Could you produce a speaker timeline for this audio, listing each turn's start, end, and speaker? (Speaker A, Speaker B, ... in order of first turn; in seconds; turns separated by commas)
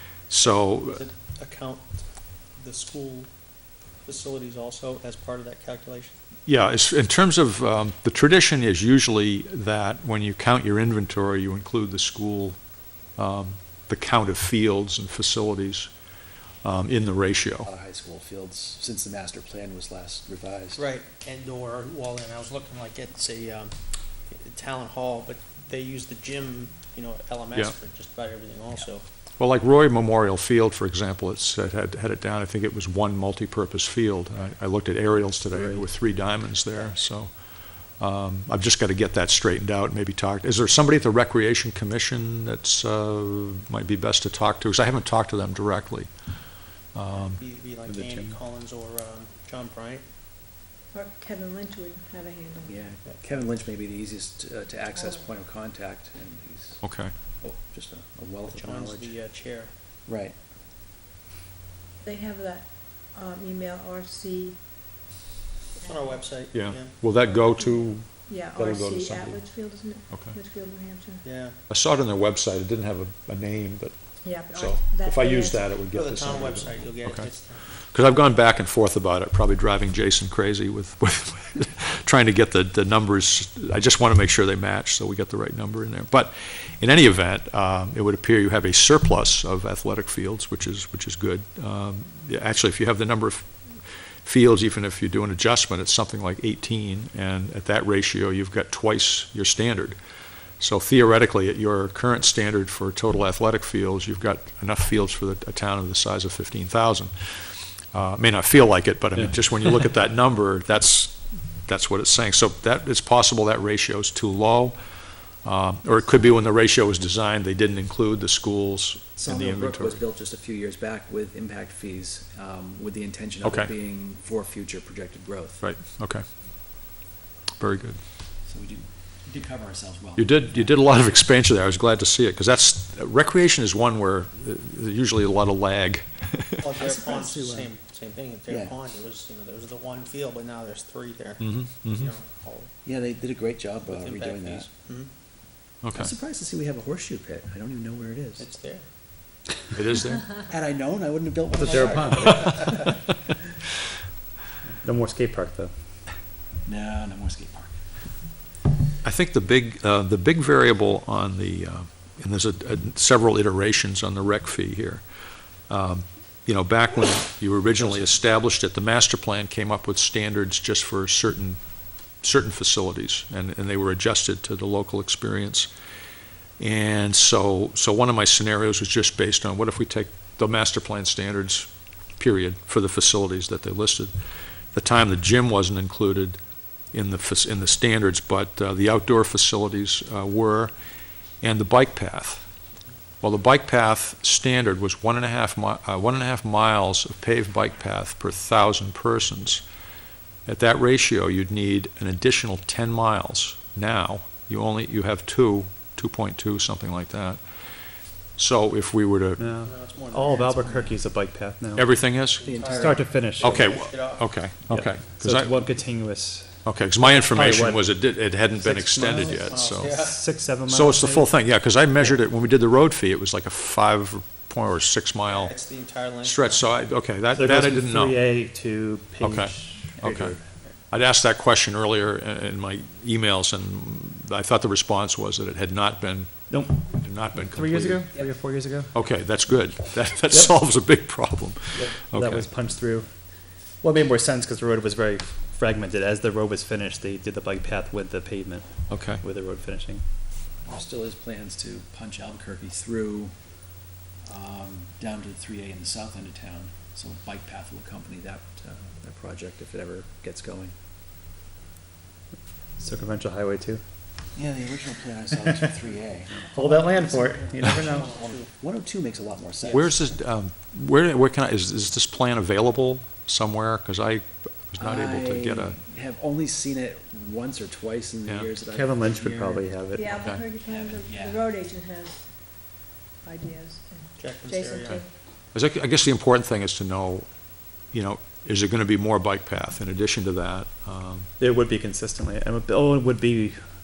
Speaker A: 0.3-1.0, Speaker B: 0.4-3.3, Speaker B: 4.0-6.2, Speaker A: 6.5-12.6, Speaker A: 13.1-15.9, Speaker A: 16.6-17.7, Speaker C: 17.6-20.8, Speaker B: 20.7-23.7, Speaker B: 24.3-29.0, Speaker A: 29.4-46.1, Speaker B: 35.5-36.9, Speaker A: 46.9-47.4, Speaker B: 47.1-50.0, Speaker D: 47.9-48.4, Speaker E: 50.9-52.9, Speaker C: 52.6-59.1, Speaker E: 54.9-55.2, Speaker A: 56.8-57.1, Speaker B: 58.5-59.7, Speaker C: 60.1-60.4, Speaker E: 62.0-64.6, Speaker B: 65.8-67.0, Speaker E: 65.8-66.2, Speaker A: 66.5-70.3, Speaker E: 67.0-71.3, Speaker B: 71.2-71.6, Speaker A: 71.7-93.5, Speaker E: 74.2-75.8, Speaker B: 75.9-77.7, Speaker A: 94.2-100.0, Speaker A: 100.6-114.8, Speaker A: 115.4-120.0, Speaker C: 119.2-125.6, Speaker A: 123.4-123.7, Speaker A: 125.6-126.2, Speaker A: 127.6-128.0, Speaker C: 128.4-130.8, Speaker A: 130.2-136.6, Speaker B: 136.6-142.7, Speaker C: 136.8-137.7, Speaker C: 138.5-138.8, Speaker A: 141.4-142.1, Speaker C: 142.8-144.7, Speaker B: 143.9-145.1, Speaker A: 145.8-146.1, Speaker C: 145.9-148.4, Speaker B: 148.4-148.8, Speaker A: 149.7-150.2, Speaker C: 150.4-152.9, Speaker D: 151.5-152.6, Speaker D: 154.8-155.7, Speaker C: 156.7-157.8, Speaker A: 159.0-165.0, Speaker A: 165.7-171.6, Speaker C: 167.8-168.0, Speaker A: 172.2-175.7, Speaker A: 176.6-184.1, Speaker A: 184.7-186.4, Speaker A: 186.9-190.7, Speaker A: 191.4-192.4, Speaker A: 193.2-199.6, Speaker A: 200.4-207.4, Speaker A: 208.3-209.4, Speaker D: 209.4-211.9, Speaker B: 209.6-211.0, Speaker A: 211.8-212.4, Speaker B: 212.3-214.4, Speaker C: 212.4-212.9, Speaker D: 212.7-213.7, Speaker A: 213.4-215.5, Speaker D: 214.7-221.3, Speaker A: 216.6-219.9, Speaker B: 219.2-220.2, Speaker A: 220.7-225.5, Speaker B: 225.2-226.7, Speaker A: 226.2-228.2, Speaker D: 227.3-230.4, Speaker A: 229.2-230.4, Speaker A: 230.9-238.1, Speaker D: 236.5-238.9, Speaker A: 238.9-242.5, Speaker D: 240.3-240.6, Speaker D: 241.7-243.3, Speaker D: 243.8-250.0, Speaker A: 248.9-249.2, Speaker C: 250.6-253.5, Speaker C: 254.2-260.7, Speaker D: 262.8-263.8, Speaker C: 264.3-266.4, Speaker D: 266.5-268.1, Speaker B: 266.5-268.5, Speaker C: 267.1-269.9, Speaker A: 269.7-275.8, Speaker C: 274.8-279.7, Speaker D: 278.7-280.2, Speaker E: 279.9-285.1, Speaker C: 280.5-281.4, Speaker B: 284.2-285.0, Speaker A: 285.5-287.3, Speaker A: 287.9-291.3, Speaker D: 291.4-293.6